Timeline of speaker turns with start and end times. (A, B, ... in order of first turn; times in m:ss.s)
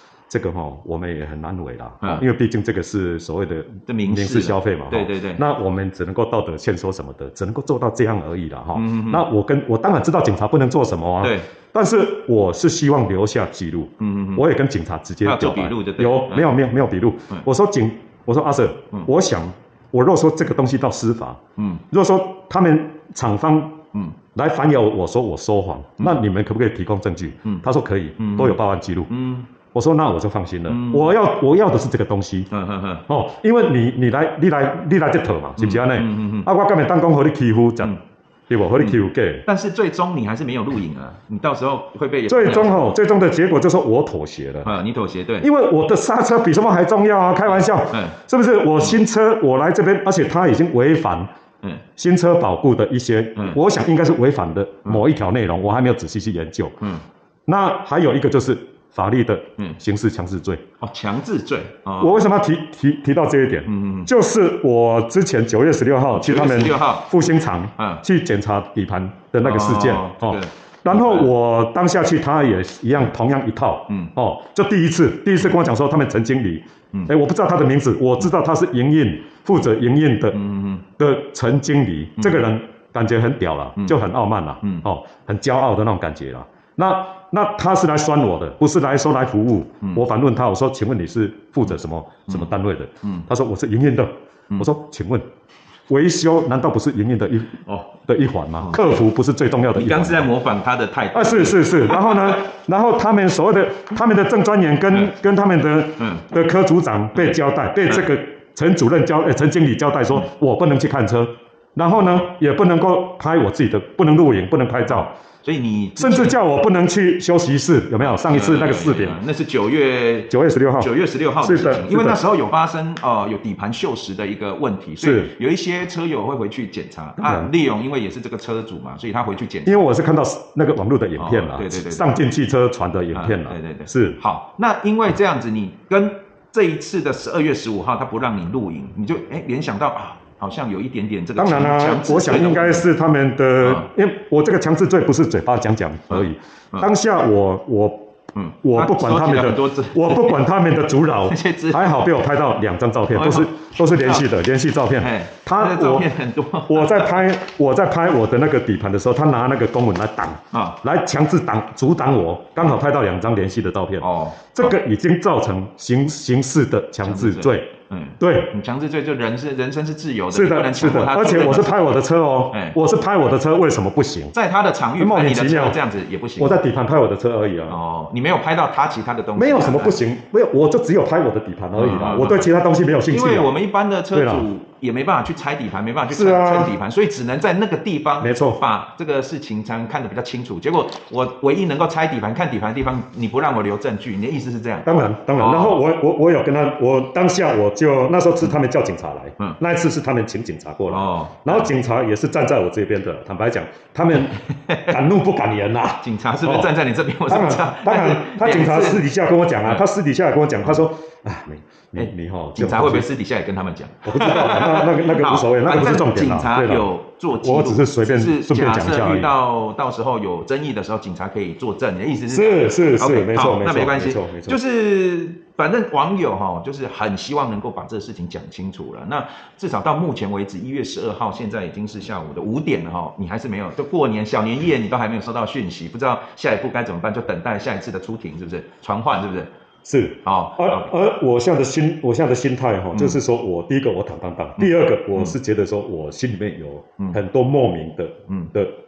0:00.3-0:21.4 A
0:03.9-0:05.4 B
0:08.8-0:09.2 B
0:11.2-0:11.5 B
0:14.0-0:14.4 B
0:15.2-0:16.5 B
0:21.6-0:21.8 B
0:21.9-0:23.8 A
0:24.4-0:29.1 A
0:28.2-0:28.6 B
0:29.1-0:29.5 B
0:29.7-0:32.5 A
0:30.7-0:31.1 B
0:32.5-0:33.1 B
0:33.1-0:38.0 A
0:35.6-0:36.5 B
0:38.5-0:39.4 A
0:38.8-0:42.9 B
0:42.3-0:44.8 A
0:44.6-0:45.5 B
0:45.4-0:51.3 A
0:47.9-0:48.2 B
0:52.0-0:56.8 A
0:57.5-1:00.6 A
1:00.8-1:02.2 B
1:02.0-1:20.4 A
1:03.7-1:04.1 B
1:06.2-1:07.1 B
1:07.8-1:08.0 B
1:09.4-1:11.3 B
1:20.3-1:20.8 B
1:21.0-1:35.3 A
1:23.8-1:24.0 B
1:35.9-1:40.3 A
1:38.6-1:38.9 B
1:39.8-1:42.4 B
1:41.1-1:55.1 A
1:46.0-1:46.2 B
1:54.9-1:56.4 B
1:56.0-1:59.2 A
1:58.3-2:09.8 B
2:00.3-2:00.9 A
2:01.4-2:02.2 A
2:05.0-2:05.3 A
2:07.2-2:07.5 A
2:09.7-2:14.2 A
2:11.2-2:12.1 B
2:13.1-2:22.9 B
2:21.4-2:28.1 A
2:23.6-2:23.9 B
2:26.1-2:26.9 B
2:28.4-2:30.4 B
2:28.6-2:36.1 A
2:31.3-2:32.0 B
2:33.1-2:34.3 B
2:35.0-2:37.2 B
2:36.7-2:47.7 A
2:40.5-2:40.8 B
2:44.0-2:44.8 B
2:47.0-2:51.9 B
2:48.2-2:48.5 A
2:50.3-2:54.3 A
2:52.5-2:52.8 B
2:54.3-2:56.6 B
2:55.0-2:55.8 A
2:56.4-2:57.8 A
2:57.7-3:00.0 B
2:59.4-3:03.5 A
3:01.8-3:02.5 B
3:03.1-3:15.8 B
3:04.1-3:04.5 A
3:06.1-3:06.7 A
3:08.2-3:08.6 A
3:14.8-3:26.7 A
3:20.9-3:21.7 B
3:24.4-3:24.9 B
3:26.0-3:29.0 B
3:27.3-3:33.1 A
3:32.0-3:59.5 B
3:34.0-3:36.9 A
3:37.4-3:39.3 A
3:42.3-3:44.6 A
3:59.8-4:08.7 A
4:00.2-4:00.9 B